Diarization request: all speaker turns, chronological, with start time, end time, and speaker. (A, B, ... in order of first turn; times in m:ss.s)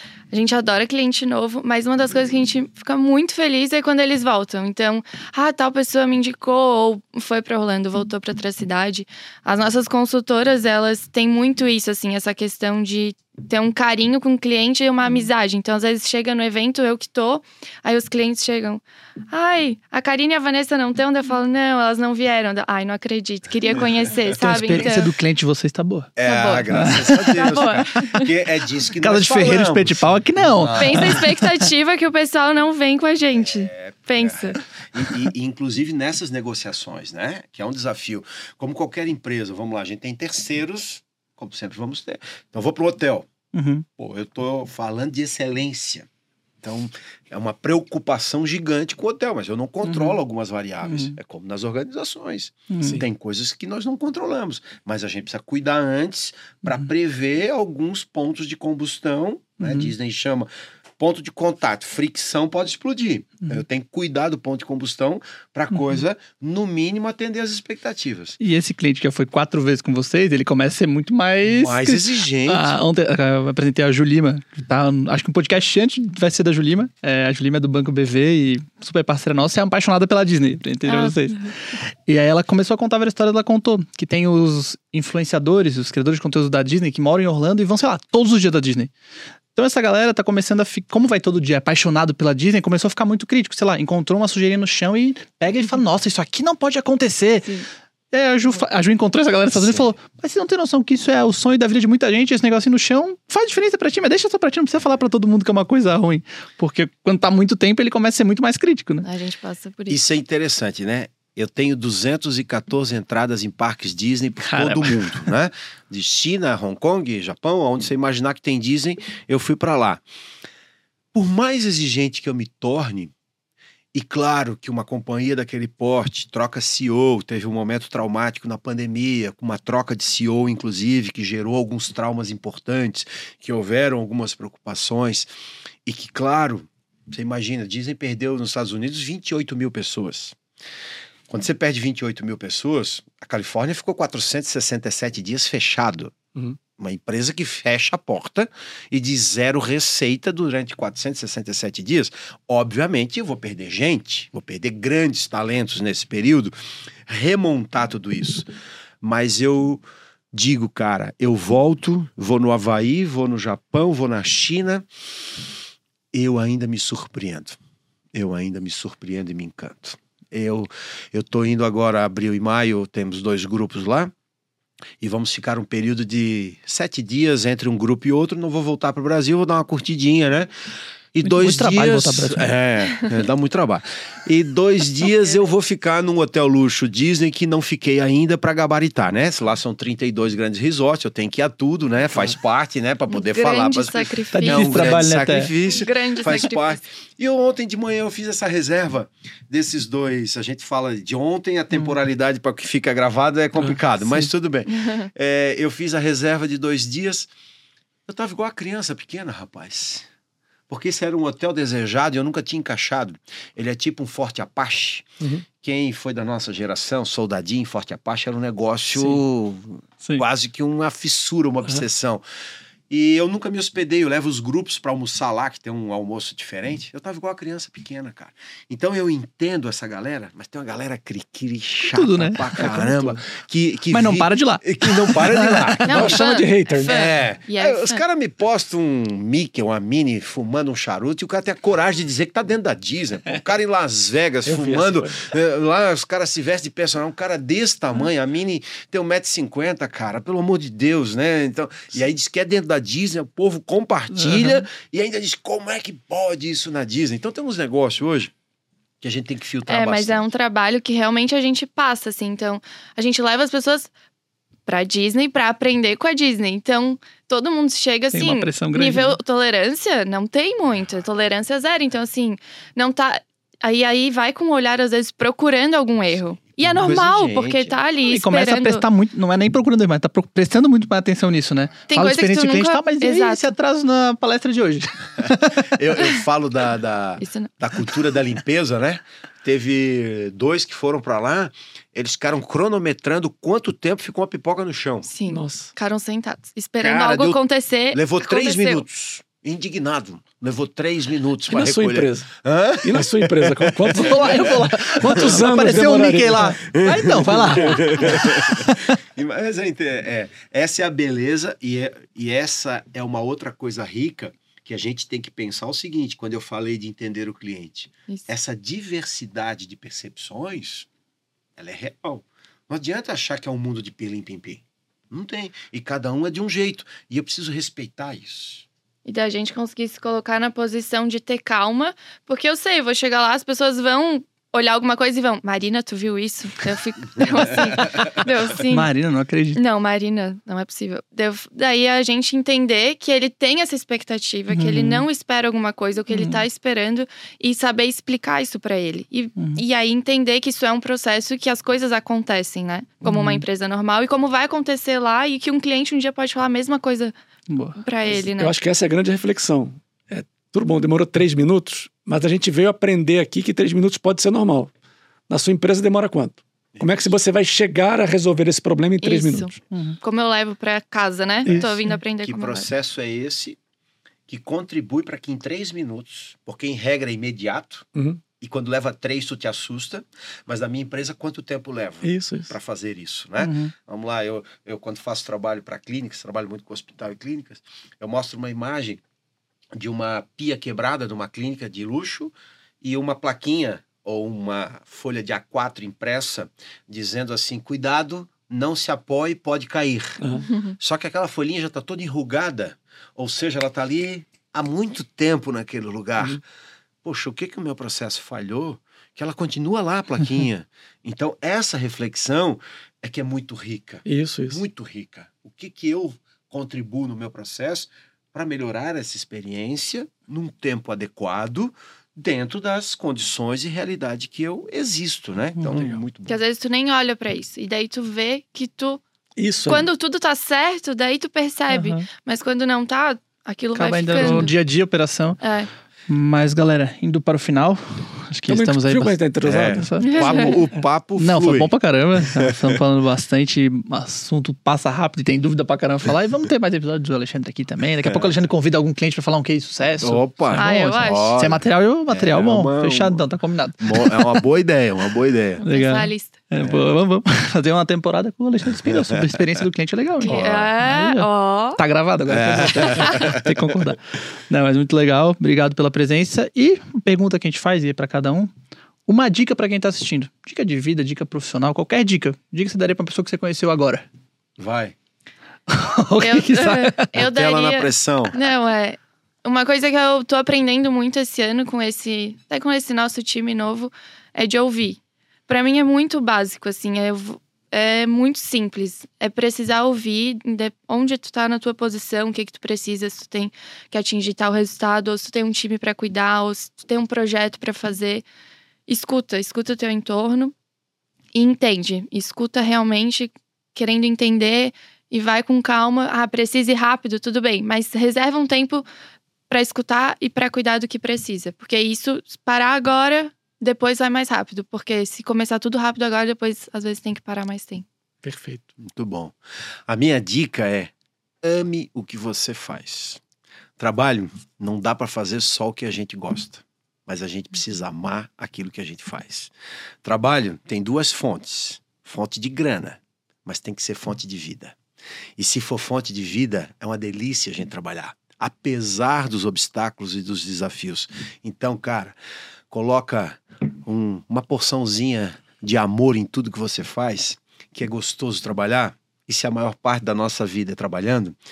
0:00.3-0:25.1 A
0:23.7-0:24.9 B
0:24.4-0:26.1 C
0:26.2-0:31.2 B
0:26.2-0:28.3 A
0:26.7-0:28.1 C
0:29.0-0:31.6 C
0:30.7-0:34.6 A
0:33.4-0:43.3 B
0:43.5-0:43.9 C
0:44.0-0:46.1 B
0:46.6-1:08.4 B
0:49.8-0:50.2 C
0:50.8-0:51.2 C
0:52.7-0:53.0 C
0:59.6-0:59.9 C
1:08.4-1:28.9 C
1:11.4-1:12.8 B
1:20.8-1:21.5 A
1:29.6-1:37.6 C
1:38.1-1:49.1 C
1:49.0-1:50.0 A
1:49.9-2:00.0 B
1:54.4-1:55.3 C
2:01.1-2:03.1 B
2:03.9-2:15.3 B
2:15.8-2:20.4 B
2:21.3-2:26.2 B
2:26.8-2:36.5 B
2:37.1-2:38.5 B
2:39.0-2:44.9 B
2:46.1-2:47.6 B
2:48.1-2:54.1 B
2:55.0-3:00.5 B
3:01.1-3:27.3 B
3:01.2-3:02.6 C
3:13.1-3:16.8 A
3:14.3-3:15.5 C
3:24.7-3:25.1 A
3:28.1-3:30.1 B
3:30.7-3:35.1 B
3:35.6-3:42.2 B
3:42.9-3:56.1 B
3:51.9-3:53.2 C
3:53.9-3:56.1 C
3:55.9-3:58.0 A
3:55.9-3:57.0 D
3:56.8-4:18.3 B
4:04.4-4:05.3 D
4:14.2-4:14.6 C
4:19.0-4:20.3 B
4:19.7-4:23.9 A
4:24.7-4:38.8 A
4:28.1-4:29.2 C
4:36.6-4:37.8 B
4:38.1-4:45.8 C
4:41.9-4:43.4 A
4:45.2-4:55.1 B
4:47.2-4:47.5 A
4:55.1-4:58.8 A
4:55.3-4:55.7 D
4:56.8-5:05.5 B
5:01.5-5:06.6 D
5:03.9-5:09.0 C
5:06.7-5:20.9 B
5:21.6-5:28.7 B
5:29.1-5:38.9 A
5:37.2-5:38.1 B
5:38.7-5:39.6 C
5:39.5-5:57.1 A
5:44.5-5:45.1 C
5:46.1-5:46.4 C
5:49.4-5:49.6 C
5:53.0-5:53.4 C
5:57.5-5:57.8 C
5:57.8-5:58.6 A
5:58.2-6:04.7 D
6:05.3-6:09.6 D
6:06.8-6:07.2 B
6:09.0-6:12.7 A
6:09.7-6:10.0 C
6:11.5-6:13.6 B
6:14.3-6:17.9 B
6:18.0-6:18.2 D
6:18.4-6:29.0 B
6:22.0-6:22.5 D
6:23.4-6:23.7 C
6:29.8-6:46.4 B
6:40.5-6:40.8 A
6:47.0-7:06.4 B
6:54.1-6:54.6 D
7:05.6-7:05.8 C
7:05.7-7:06.0 D
7:06.3-7:09.0 A
7:09.4-7:09.9 D
7:09.7-7:14.5 A
7:11.7-7:12.0 C
7:13.8-7:15.4 C
7:15.4-7:15.7 A
7:16.1-7:20.6 C
7:18.5-7:19.9 D
7:19.4-7:21.7 B
7:20.0-7:20.6 A
7:21.2-7:34.4 C
7:22.4-7:22.7 B
7:28.0-7:28.3 B
7:30.0-7:33.2 B
7:30.6-7:31.4 A
7:33.8-7:35.6 B
7:35.6-7:36.4 A
7:35.6-7:48.5 C
7:36.6-7:36.9 B
7:38.7-7:39.4 B
7:40.2-7:41.8 A
7:40.3-7:40.6 D
7:40.4-7:40.7 B
7:42.3-7:43.7 B
7:49.1-7:54.1 C
7:54.6-7:55.0 B
7:55.7-7:57.1 C
7:56.2-8:18.2 A
7:57.1-7:58.4 B
8:18.9-8:20.5 A
8:21.3-8:28.9 A
8:29.5-8:37.8 A
8:38.2-8:38.6 D
8:38.8-8:39.4 B
8:39.9-8:43.2 B
8:43.8-8:49.5 B
8:50.0-8:54.8 B
8:55.4-9:02.2 B
9:02.7-9:11.4 B